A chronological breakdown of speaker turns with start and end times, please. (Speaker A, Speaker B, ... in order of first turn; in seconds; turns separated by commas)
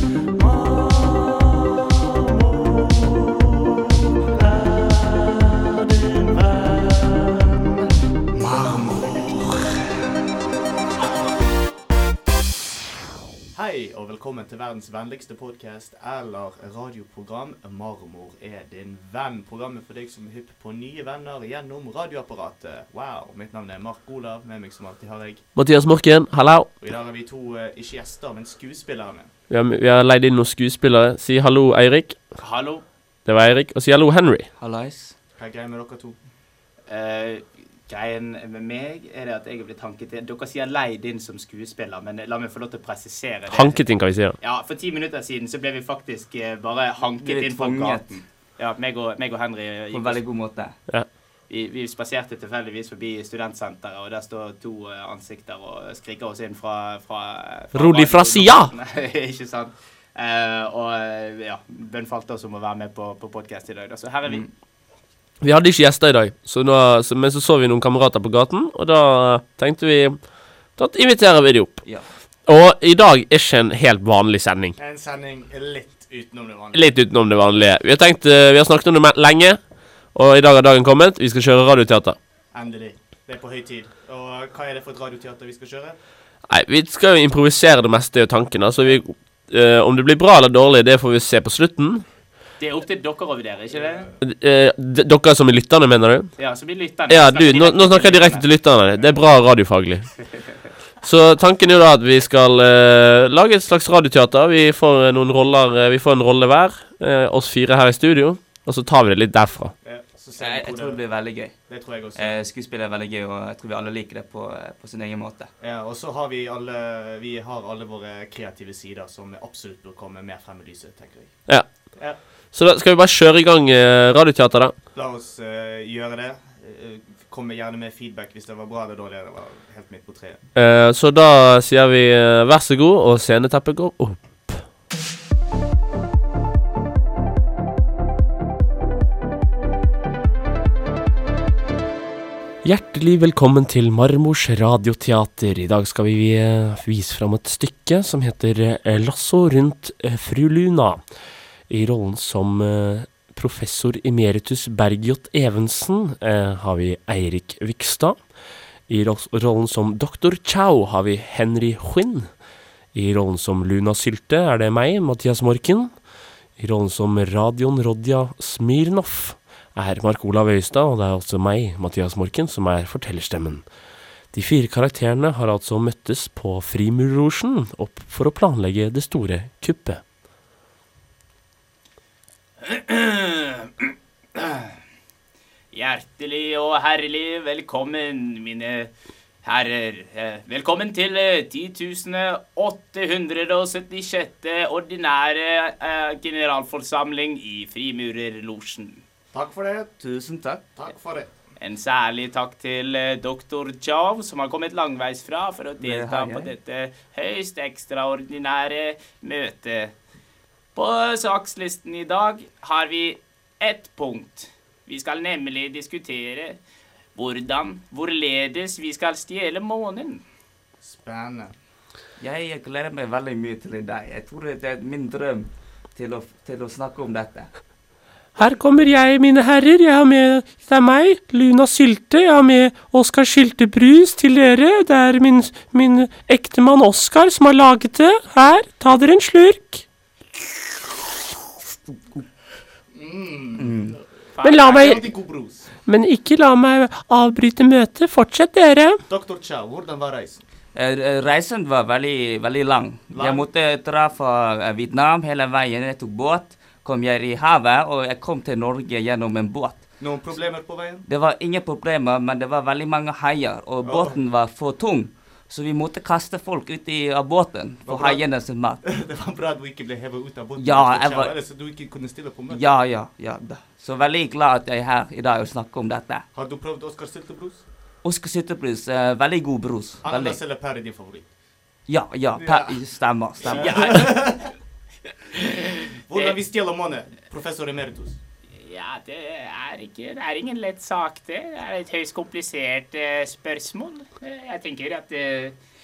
Speaker A: 0.3-10.1, Speaker A: 13.5-25.4, Speaker B: 25.6-26.7, Speaker A: 26.8-29.3, Speaker B: 29.5-32.2, Speaker C: 32.4-32.8, Speaker B: 33.2-34.5, Speaker D: 34.6-35.1, Speaker A: 35.4-36.2, Speaker C: 36.9-43.8, Speaker B: 43.5-44.4, Speaker C: 44.4-50.2, Speaker D: 47.2-48.1, Speaker D: 49.9-50.7, Speaker C: 51.5-64.5, Speaker B: 57.7-58.7, Speaker B: 65.4-70.2, Speaker B: 70.8-71.8, Speaker B: 72.5-74.8, Speaker A: 74.8-76.9, Speaker B: 76.7-79.6, Speaker B: 80.1-82.2, Speaker A: 82.5-86.0, Speaker B: 86.5-92.0, Speaker C: 92.6-94.1, Speaker B: 94.2-96.3, Speaker C: 96.4-98.5, Speaker B: 97.1-100.1, Speaker B: 101.0-109.7, Speaker A: 109.8-111.0, Speaker D: 110.4-115.5, Speaker A: 111.7-112.4, Speaker A: 115.6-121.3, Speaker B: 122.5-124.7, Speaker A: 124.9-130.4, Speaker B: 130.5-134.6, Speaker B: 142.6-151.0, Speaker B: 151.7-158.2, Speaker B: 158.9-162.3, Speaker B: 162.9-165.9, Speaker B: 166.6-173.7, Speaker B: 174.3-180.0, Speaker C: 182.6-184.7, Speaker C: 185.7-188.9, Speaker C: 189.4-199.0, Speaker A: 199.3-201.3, Speaker D: 200.0-200.4, Speaker C: 201.6-209.9, Speaker D: 205.8-206.5, Speaker C: 210.7-216.6, Speaker C: 217.2-220.2, Speaker A: 220.8-221.5, Speaker D: 222.2-227.5, Speaker B: 228.3-239.8, Speaker A: 242.9-244.0, Speaker D: 243.6-244.0, Speaker C: 244.3-245.0, Speaker B: 244.4-245.1, Speaker A: 244.5-245.7, Speaker B: 245.8-249.0, Speaker A: 249.1-250.4, Speaker D: 250.7-259.8, Speaker A: 253.1-253.4, Speaker A: 260.0-261.0, Speaker D: 261.1-268.8, Speaker A: 263.8-264.2, Speaker A: 267.9-268.2, Speaker A: 268.8-272.6, Speaker D: 270.6-271.3, Speaker D: 272.5-276.2, Speaker A: 276.3-277.6, Speaker D: 278.0-280.4, Speaker A: 280.0-281.3, Speaker D: 281.9-284.1, Speaker A: 282.4-282.8, Speaker A: 283.4-284.5, Speaker C: 283.5-284.1, Speaker A: 285.4-288.2, Speaker C: 288.6-295.6